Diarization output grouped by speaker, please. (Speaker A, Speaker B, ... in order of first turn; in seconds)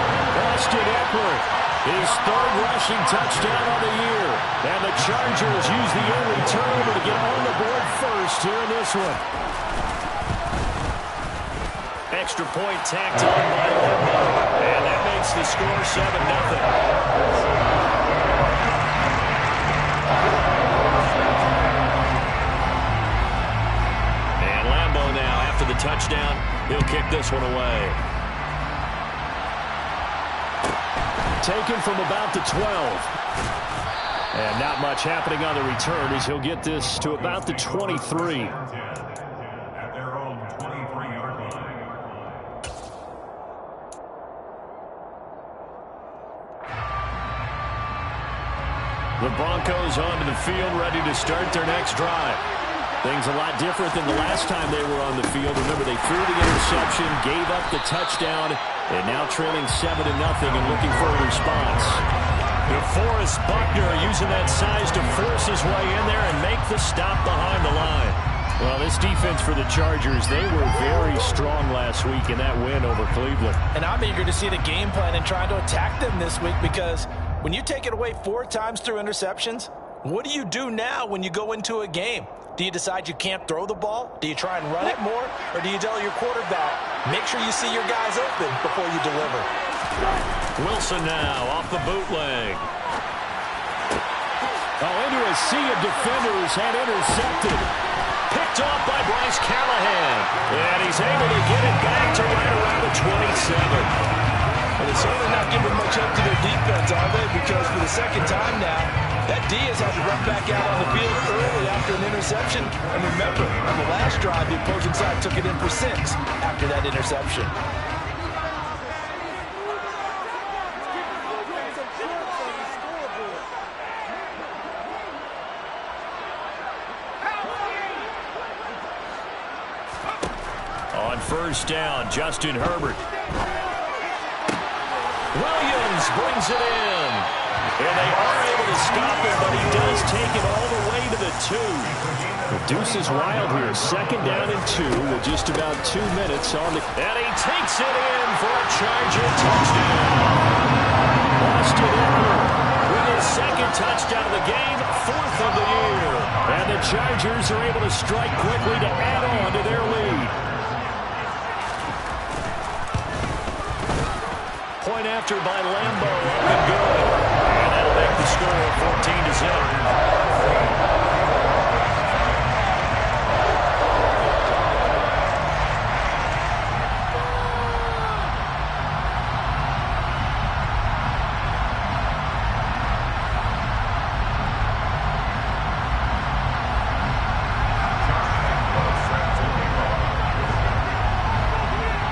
Speaker A: 0.3-9.2, 12.1-16.7, 24.4-28.0, 31.4-33.1, 34.3-38.6, 49.2-52.4, 53.0-62.0, 62.7-73.6, 90.6-92.7, 94.8-97.7, 98.3-103.9, 130.9-133.0, 135.3-141.9, 142.5-150.6, 151.4-160.3, 164.8-169.8
Speaker B: 36.9-42.5, 141.8-145.4, 188.0-190.8
Speaker C: 73.7-89.5, 104.8-117.5